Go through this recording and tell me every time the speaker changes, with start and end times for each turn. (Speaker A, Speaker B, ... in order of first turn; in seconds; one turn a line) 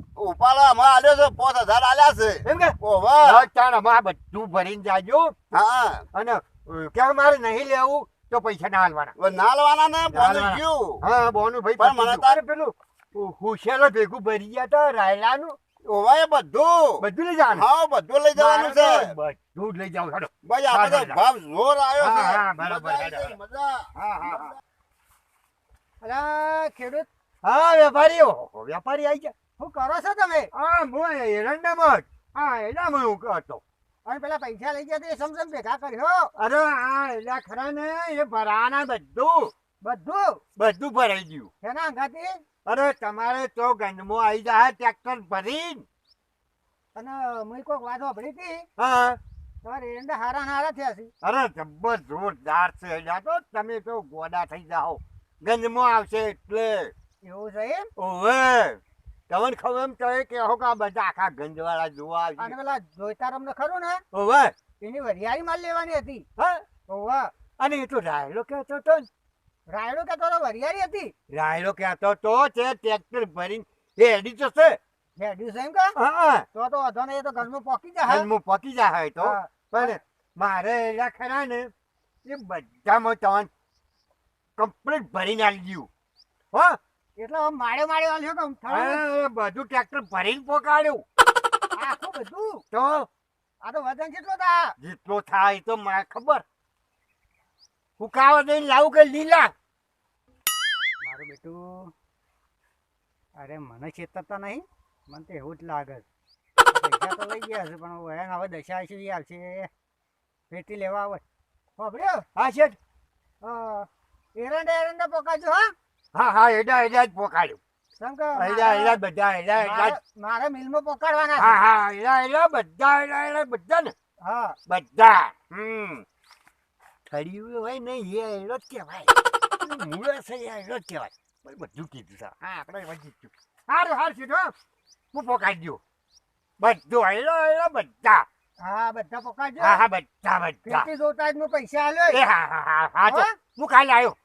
Speaker A: 0.1-3.5
Speaker B: 2.4-5.3
Speaker A: 5.5-6.0
Speaker B: 6.1-9.1
Speaker A: 9.2-11.0
Speaker B: 10.1-15.6
Speaker A: 11.8-12.4
Speaker A: 15.8-19.1
Speaker B: 17.0-17.6
Speaker B: 18.3-21.2
Speaker A: 20.4-23.9
Speaker B: 22.0-23.4
Speaker B: 23.9-24.6
Speaker C: 26.0-27.1
Speaker B: 27.4-29.3
Speaker C: 29.6-30.5
Speaker B: 30.5-33.6
Speaker C: 34.0-36.3
Speaker B: 36.4-39.5
Speaker C: 39.8-40.4
Speaker B: 40.6-41.5
Speaker C: 41.6-42.4
Speaker B: 42.6-45.8
Speaker C: 46.9-48.7
Speaker B: 48.8-49.2
Speaker C: 49.6-51.1
Speaker B: 51.2-56.9
Speaker C: 57.2-57.9
Speaker B: 58.0-58.8
Speaker B: 59.3-62.5
Speaker C: 62.4-64.0
Speaker B: 64.1-64.5
Speaker C: 64.8-66.2
Speaker B: 66.4-66.6
Speaker C: 66.9-67.3
Speaker B: 67.6-69.1
Speaker C: 69.7-71.1
Speaker B: 71.3-74.8
Speaker C: 75.2-75.9
Speaker B: 76.0-76.5
Speaker C: 76.5-78.3
Speaker B: 78.0-81.7
Speaker C: 79.2-80.0
Speaker B: 82.2-83.5
Speaker B: 84.6-85.9
Speaker B: 86.5-86.8
Speaker C: 87.2-89.0
Speaker B: 88.7-91.0
Speaker C: 91.7-92.6
Speaker B: 92.7-93.1
Speaker C: 93.6-94.7
Speaker B: 94.8-96.4
Speaker B: 98.0-99.5
Speaker C: 101.0-101.9
Speaker C: 103.3-106.0
Speaker C: 106.7-109.7
Speaker C: 110.5-111.2
Speaker C: 111.8-112.2
Speaker B: 112.3-112.8
Speaker C: 113.4-115.7
Speaker B: 116.1-117.6
Speaker C: 118.0-119.0
Speaker B: 118.3-120.0
Speaker C: 119.5-121.6
Speaker B: 121.3-123.9
Speaker C: 124.2-124.6
Speaker B: 124.7-126.0
Speaker B: 127.1-134.5
Speaker B: 135.1-135.8
Speaker B: 136.6-138.2
Speaker C: 138.6-139.8
Speaker B: 139.6-140.9
Speaker C: 140.6-142.2
Speaker B: 142.1-144.2
Speaker C: 143.1-143.3